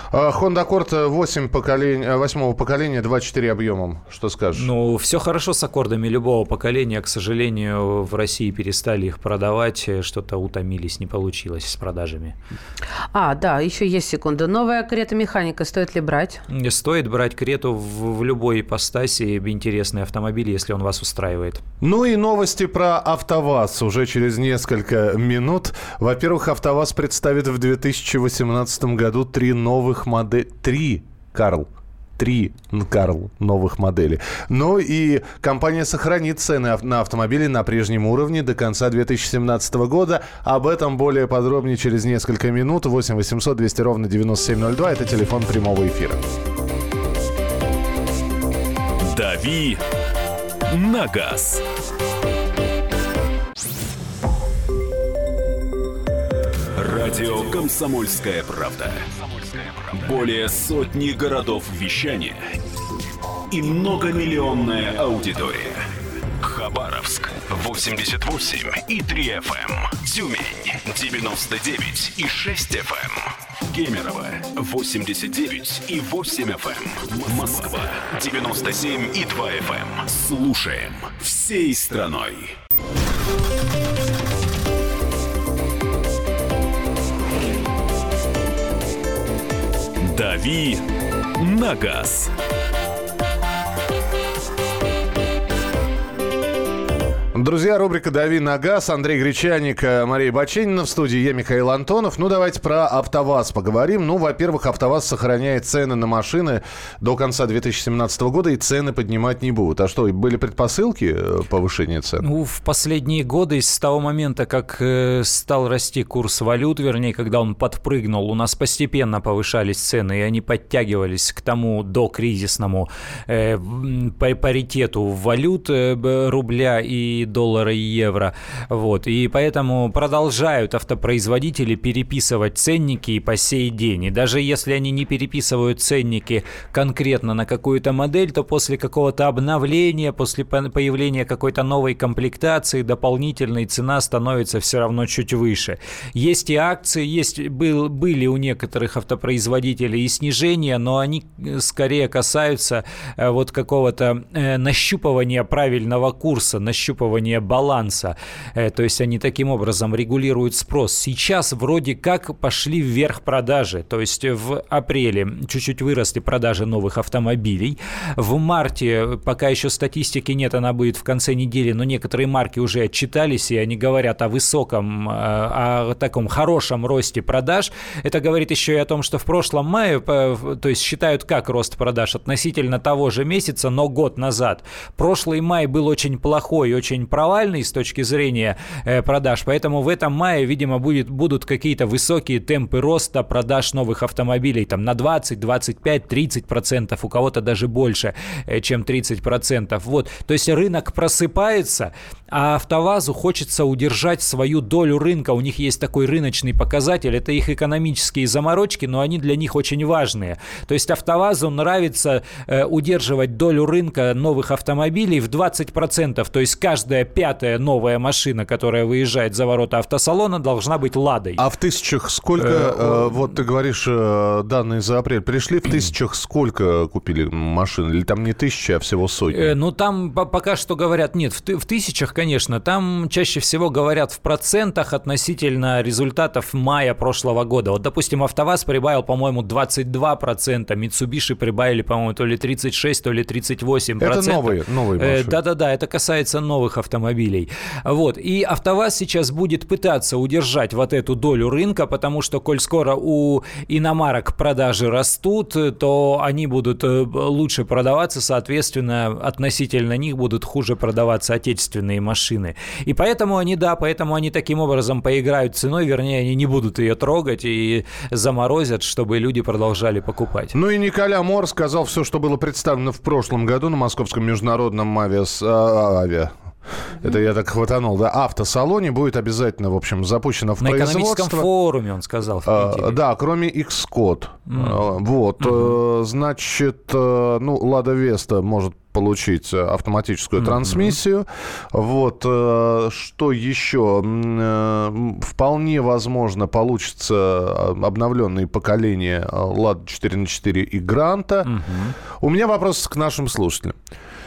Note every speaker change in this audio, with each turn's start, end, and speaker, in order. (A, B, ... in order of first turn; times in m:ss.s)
0:00.1-0:04.7 A
0:04.6-0:12.4 B
0:13.1-0:16.4 C
0:16.5-0:21.6 B
0:21.8-0:46.2 A
0:49.0-0:49.8 D
0:50.7-0:51.6 D
0:56.8-1:02.4 D
1:03.5-1:22.6 D
1:30.0-1:30.8 D
1:31.4-1:32.3 D
1:37.3-1:52.3 A
1:52.2-3:41.4 B
3:41.4-3:49.5 A
3:42.4-3:43.2 B
3:49.3-4:30.6 B
4:04.0-4:05.4 A
4:30.5-4:36.3 A
4:37.0-4:41.5 A
4:40.6-4:43.0 B
4:42.4-5:01.5 A
4:44.5-4:44.8 B
4:45.4-4:45.8 B
4:50.4-4:51.0 B
5:01.5-5:02.0 B
5:02.2-5:03.8 A